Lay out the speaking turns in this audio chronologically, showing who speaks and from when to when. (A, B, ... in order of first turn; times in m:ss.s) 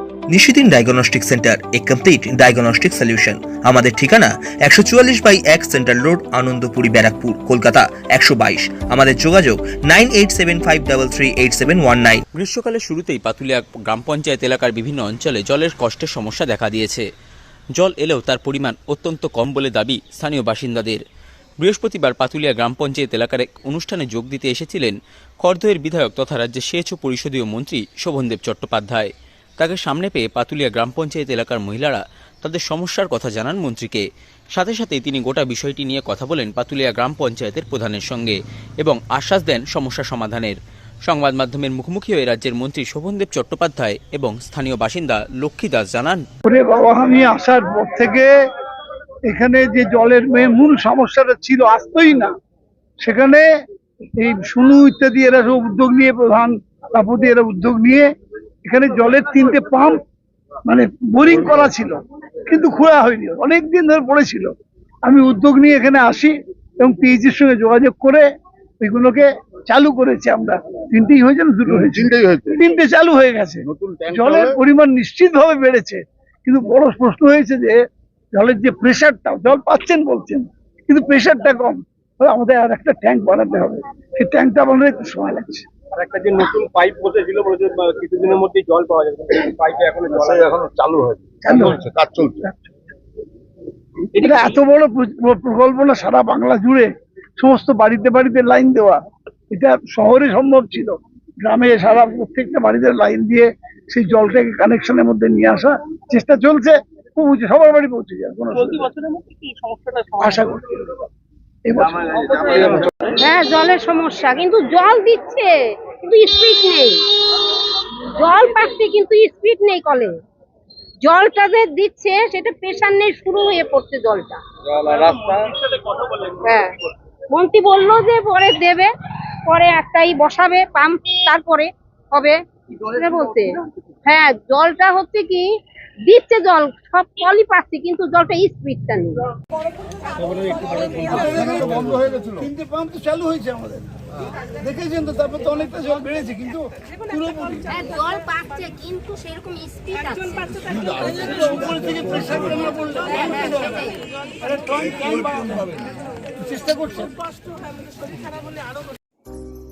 0:00.3-0:12.2 A
0:12.4-0:17.1 B
0:17.8-0:21.0 B
0:21.6-0:46.2 B
0:46.4-0:48.3 C
0:49.3-0:52.3 C
0:53.0-0:53.5 C
0:54.2-0:58.1 C
0:58.6-1:00.0 C
1:00.7-1:04.5 C
1:05.0-1:08.2 C
1:08.8-1:17.8 C
1:11.7-1:12.6 D
1:13.6-1:14.6 D
1:18.3-1:25.7 C
1:25.9-1:30.4 E
1:30.0-1:32.5 D
1:31.4-1:31.8 C
1:34.2-1:39.0 C
1:39.5-1:48.9 C
1:48.9-1:50.1 E
1:50.2-1:50.9 C
1:51.7-1:53.1 C
1:53.2-2:00.1 F
2:01.0-2:04.4 F
2:04.8-2:05.4 E
2:06.3-2:06.7 F
2:07.3-2:08.9 F
2:09.5-2:15.5 F
2:16.1-2:19.2 F
2:20.8-2:27.8 C
2:27.7-2:30.8 F
2:30.8-2:33.9 C
2:33.3-2:33.9 F
2:34.4-2:35.9 C
2:36.4-2:37.2 C